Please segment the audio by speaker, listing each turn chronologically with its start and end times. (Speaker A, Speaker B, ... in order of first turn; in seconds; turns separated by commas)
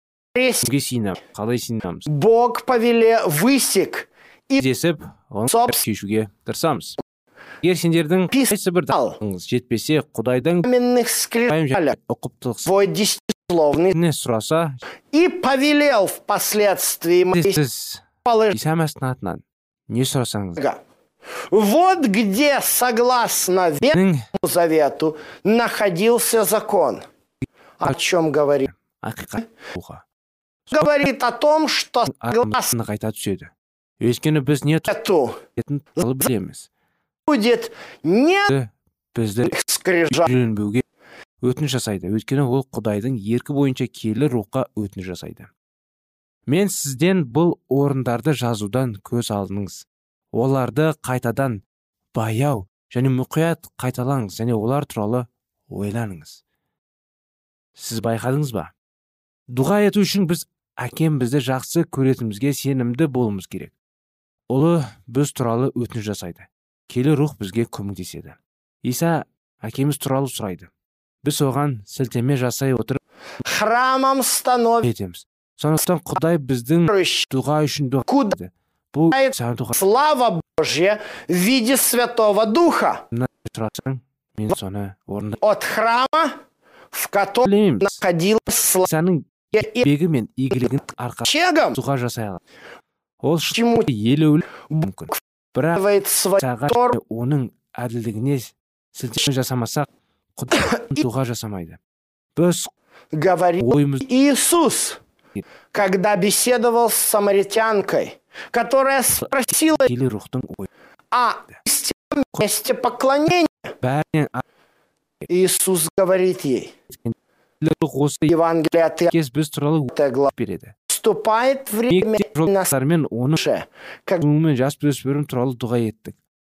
Speaker A: 0.3-0.7, Speaker B: 0.6-2.1, Speaker A: 2.1-4.6, Speaker B: 4.6-7.0, Speaker A: 5.5-5.8, Speaker B: 7.6-10.7, Speaker A: 8.3-9.2, Speaker A: 10.6-12.0, Speaker B: 11.5-12.7, Speaker A: 12.6-13.9, Speaker B: 13.9-14.8, Speaker A: 15.1-17.6, Speaker B: 17.3-20.6, Speaker A: 18.2-18.6, Speaker A: 20.6-20.8, Speaker A: 21.5-27.0, Speaker B: 23.9-24.3, Speaker A: 27.8-28.7, Speaker B: 28.7-30.0, Speaker A: 30.7-32.7, Speaker B: 32.1-34.9, Speaker A: 34.9-35.4, Speaker B: 35.5-36.7, Speaker A: 37.3-38.5, Speaker B: 38.5-39.6, Speaker A: 39.5-40.3, Speaker B: 40.1-40.8, Speaker B: 41.4-45.5, Speaker B: 46.5-51.6, Speaker B: 52.1-56.4, Speaker B: 57.8-58.7, Speaker B: 59.5-63.7, Speaker B: 64.5-70.7, Speaker B: 71.2-73.0, Speaker A: 73.4-74.9, Speaker B: 74.8-79.8, Speaker A: 76.9-77.3, Speaker A: 78.1-78.3, Speaker A: 79.1-83.0, Speaker B: 83.1-85.4, Speaker A: 85.4-86.4, Speaker A: 86.9-88.9, Speaker B: 87.4-88.0, Speaker B: 88.8-92.4, Speaker A: 89.5-89.8, Speaker A: 91.3-91.8, Speaker B: 93.2-95.8, Speaker A: 93.5-93.9, Speaker A: 95.8-97.0, Speaker B: 96.4-101.8, Speaker B: 102.3-102.7, Speaker A: 103.1-105.0, Speaker B: 103.6-104.0, Speaker A: 105.7-109.9, Speaker B: 109.8-110.7, Speaker A: 111.1-113.7, Speaker B: 113.8-114.4, Speaker A: 115.3-116.7, Speaker B: 117.0-118.3, Speaker A: 118.3-119.1, Speaker B: 119.1-120.7, Speaker A: 119.9-120.3, Speaker A: 120.9-122.7, Speaker B: 121.9-123.4, Speaker A: 123.3-124.2, Speaker B: 124.2-126.2